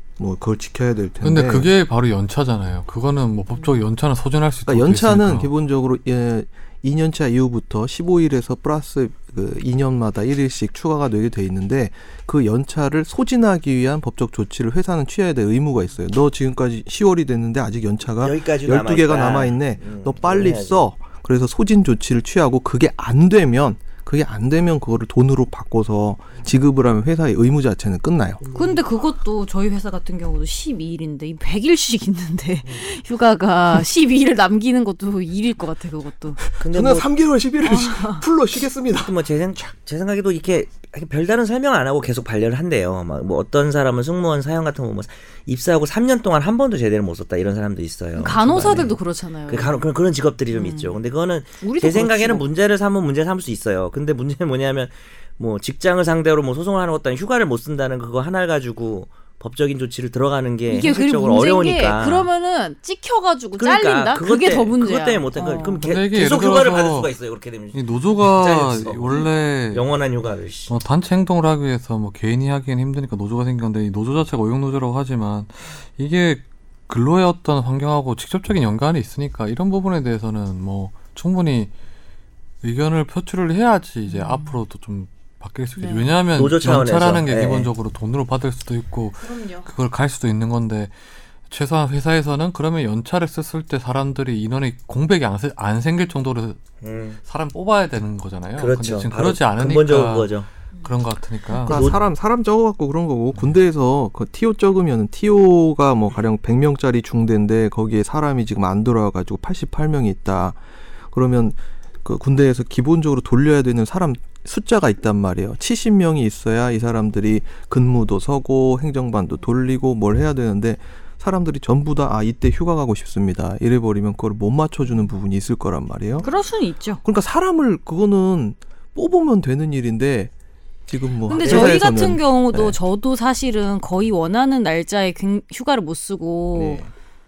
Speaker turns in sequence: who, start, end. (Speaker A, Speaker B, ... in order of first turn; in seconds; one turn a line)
Speaker A: 0.2-1.7
Speaker B: 1.2-5.5
Speaker A: 4.7-28.4
Speaker C: 18.2-20.9
Speaker C: 28.4-28.8
Speaker D: 28.6-36.4
Speaker A: 36.5-39.1
Speaker C: 36.6-37.1
Speaker D: 37.6-38.2
Speaker C: 39.0-49.0
Speaker D: 48.2-49.8
Speaker C: 49.5-62.3
Speaker D: 50.5-51.0
Speaker D: 51.6-52.5
Speaker D: 60.7-65.8
Speaker C: 63.6-70.8
Speaker B: 65.8-67.1
Speaker B: 67.7-69.8
Speaker B: 70.7-81.7
Speaker B: 82.6-90.9
Speaker D: 84.1-84.5
Speaker D: 85.8-86.1
Speaker C: 86.3-87.7
Speaker D: 89.2-89.7
Speaker B: 91.5-96.6
Speaker C: 96.8-97.2
Speaker B: 97.2-102.0
Speaker C: 98.6-100.5
Speaker C: 101.7-102.0
Speaker A: 101.7-110.6
Speaker A: 111.1-126.3
Speaker D: 126.2-127.0
Speaker A: 127.0-130.3
Speaker A: 130.9-132.8
Speaker D: 131.3-136.8
Speaker C: 131.3-131.8
Speaker A: 136.5-136.9